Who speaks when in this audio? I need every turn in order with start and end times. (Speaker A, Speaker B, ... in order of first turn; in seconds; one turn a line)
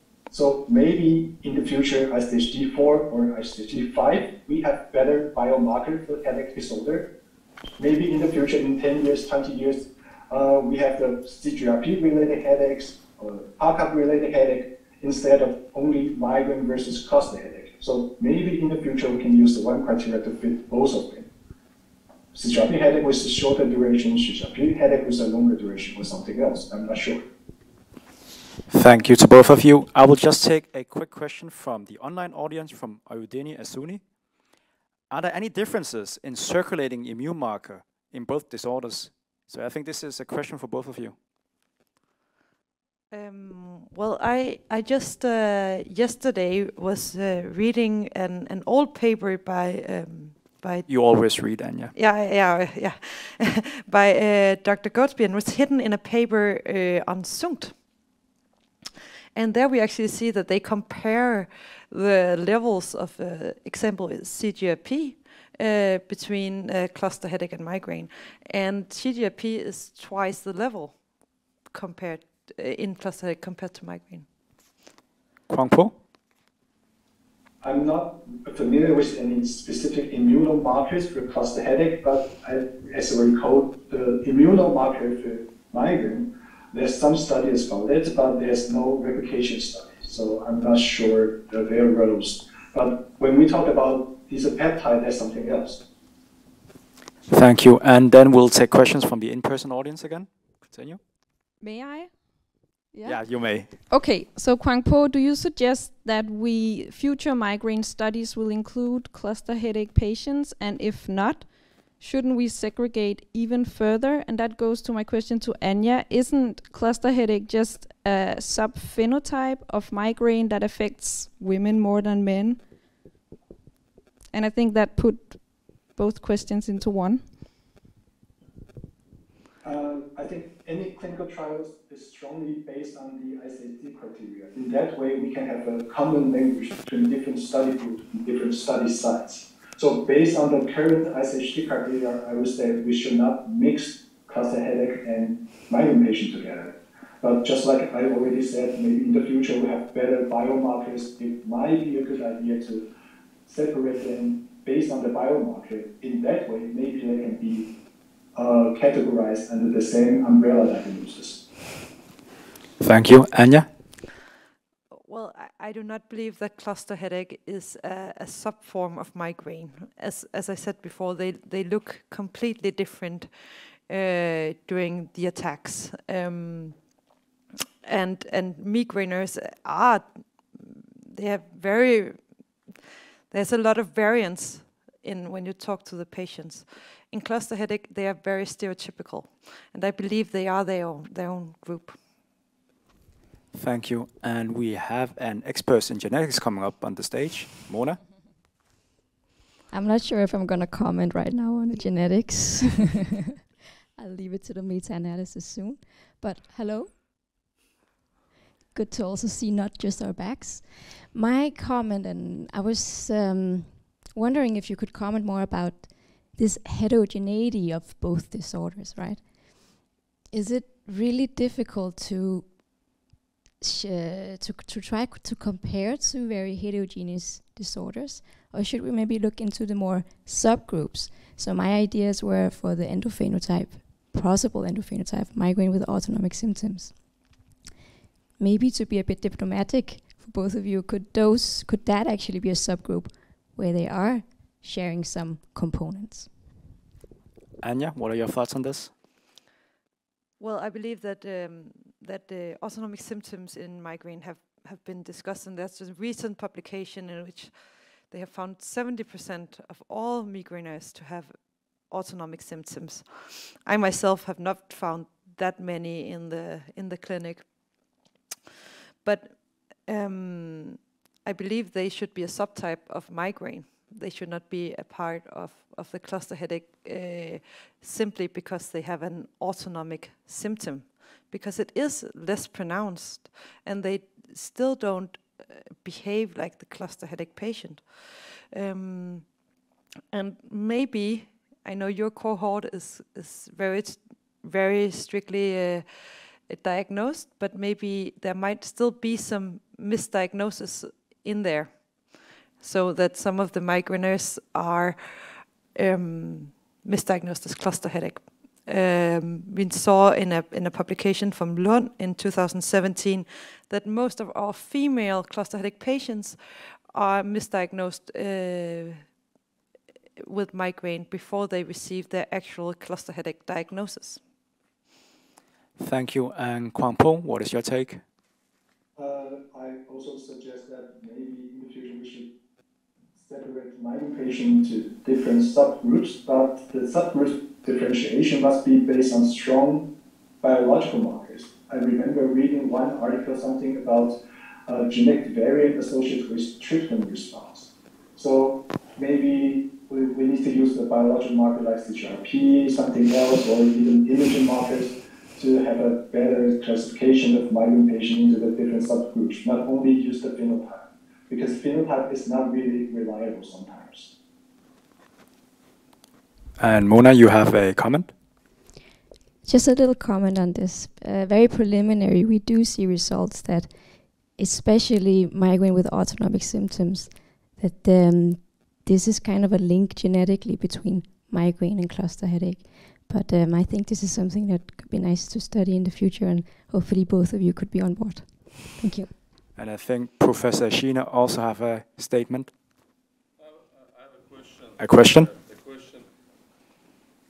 Speaker A: 0.3-7.1
Speaker A: 7.8-21.3
Speaker A: 22.3-27.2
Speaker B: 28.7-34.0
Speaker B: 35.1-41.1
Speaker C: 43.1-50.9
Speaker B: 50.9-51.9
Speaker C: 51.9-57.8
Speaker C: 59.3-71.0
Speaker C: 71.7-74.3
Speaker B: 75.5-75.9
Speaker A: 77.6-95.8
Speaker B: 97.3-101.0
Speaker D: 101.6-102.3
Speaker D: 102.9-103.3
Speaker B: 103.0-103.7
Speaker D: 103.9-122.7
Speaker D: 124.3-127.3
Speaker A: 129.6-152.8
Speaker A: 153.4-157.7
Speaker A: 158.3-161.4
Speaker B: 162.8-163.7
Speaker C: 165.1-173.3
Speaker C: 173.9-176.8
Speaker C: 177.8-182.2
Speaker C: 183.3-192.0
Speaker B: 193.5-198.0
Speaker E: 199.7-203.2
Speaker E: 204.0-207.0
Speaker E: 208.7-219.7
Speaker E: 220.3-222.6
Speaker E: 223.6-237.2
Speaker E: 238.4-246.3
Speaker B: 247.6-248.9
Speaker C: 250.4-257.5
Speaker C: 258.1-267.5
Speaker C: 269.0-289.3
Speaker C: 290.1-295.9
Speaker C: 296.5-316.4
Speaker C: 316.9-319.0
Speaker C: 320.2-324.2
Speaker B: 325.8-328.0
Speaker A: 328.9-332.3
Speaker A: 333.1-339.9
Speaker A: 340.4-364.1
Speaker B: 366.6-368.1
Speaker E: 369.4-389.1
Speaker B: 389.6-392.5
Speaker F: 393.4-396.1
Speaker B: 394.8-395.3